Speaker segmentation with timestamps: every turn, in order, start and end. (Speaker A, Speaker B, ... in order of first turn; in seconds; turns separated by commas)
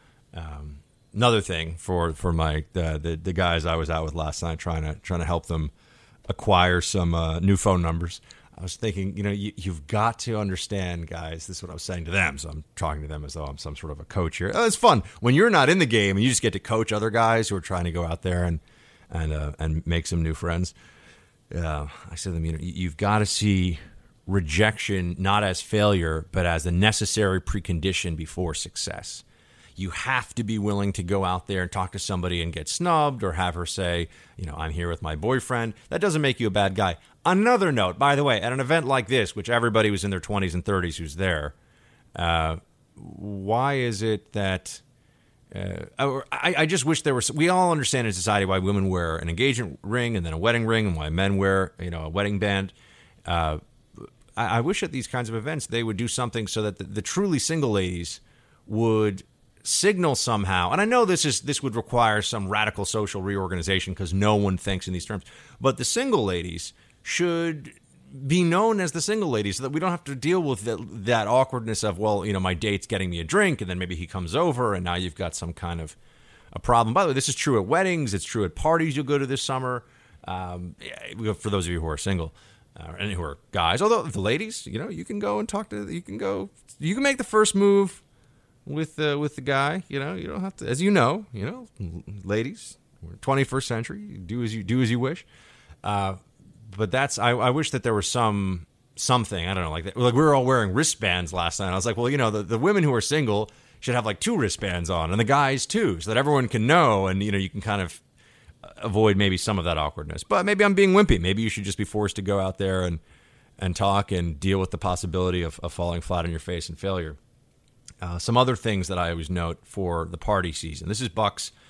Speaker A: 0.3-5.7, Speaker A: 6.3-20.8, Speaker A: 21.5-29.2, Speaker A: 29.8-41.6, Speaker A: 42.2-44.8, Speaker A: 45.5-52.7, Speaker A: 53.3-76.0, Speaker A: 76.5-88.0, Speaker A: 88.7-95.3, Speaker A: 95.8-108.0, Speaker A: 108.7-113.0, Speaker A: 113.6-117.2, Speaker A: 118.0-121.5